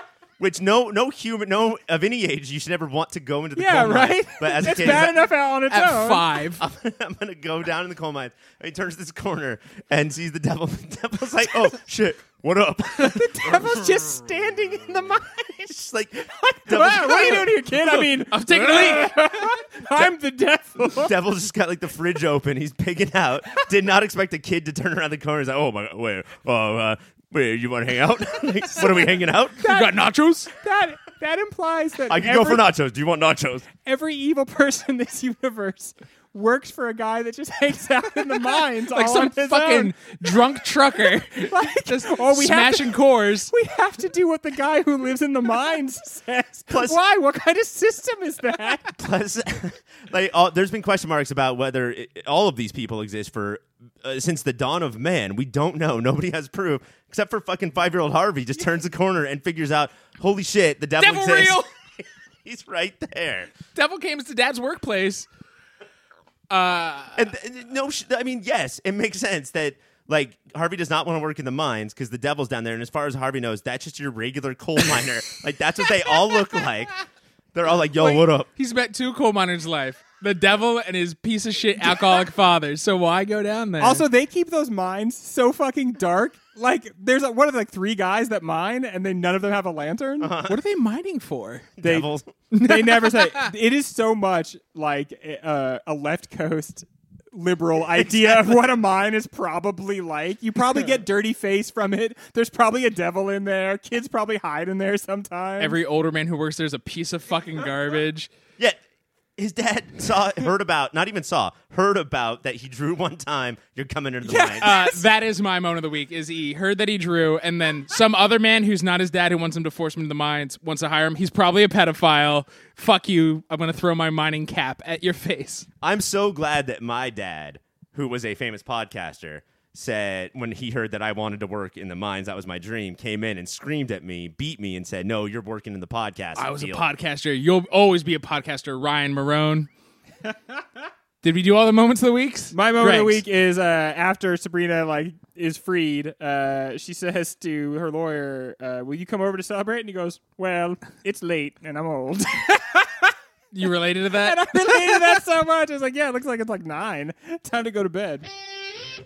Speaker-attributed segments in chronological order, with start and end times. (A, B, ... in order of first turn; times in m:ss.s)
0:00.4-0:05.1 A
0:03.6-0:06.3 B
0:04.7-0:05.2 C
0:05.7-0:06.6 C
0:06.6-0:14.0 A
0:13.0-0:15.4 B
0:14.9-0:17.5 A
0:16.4-0:21.2 B
0:18.1-0:19.4 C
0:20.8-0:29.6 A
0:29.6-0:32.6 B
0:29.6-0:30.5 C
0:32.1-0:33.7 A
0:33.8-0:48.9 B
0:38.5-0:43.5 C
0:46.7-0:47.0 A
0:49.0-1:03.5 A
1:01.0-1:01.7 C
1:03.7-1:05.3 C
1:06.5-1:07.3 C
1:07.2-1:16.9 A
1:17.5-1:18.5 A
1:18.0-1:24.0 C
1:23.8-1:30.3 B
1:30.2-1:30.6 A
1:30.4-1:31.8 C
1:31.8-1:32.3 A
1:32.5-1:33.5 C
1:32.6-1:45.8 B
1:45.6-1:48.3 C
1:49.4-1:54.9 A
1:54.3-1:55.0 B
1:54.6-2:05.7 C
2:05.8-2:16.8 A
2:16.4-2:19.7 C
2:21.2-2:23.2 C
2:22.5-2:33.1 B
2:33.5-2:35.2 C
2:34.1-2:38.3 B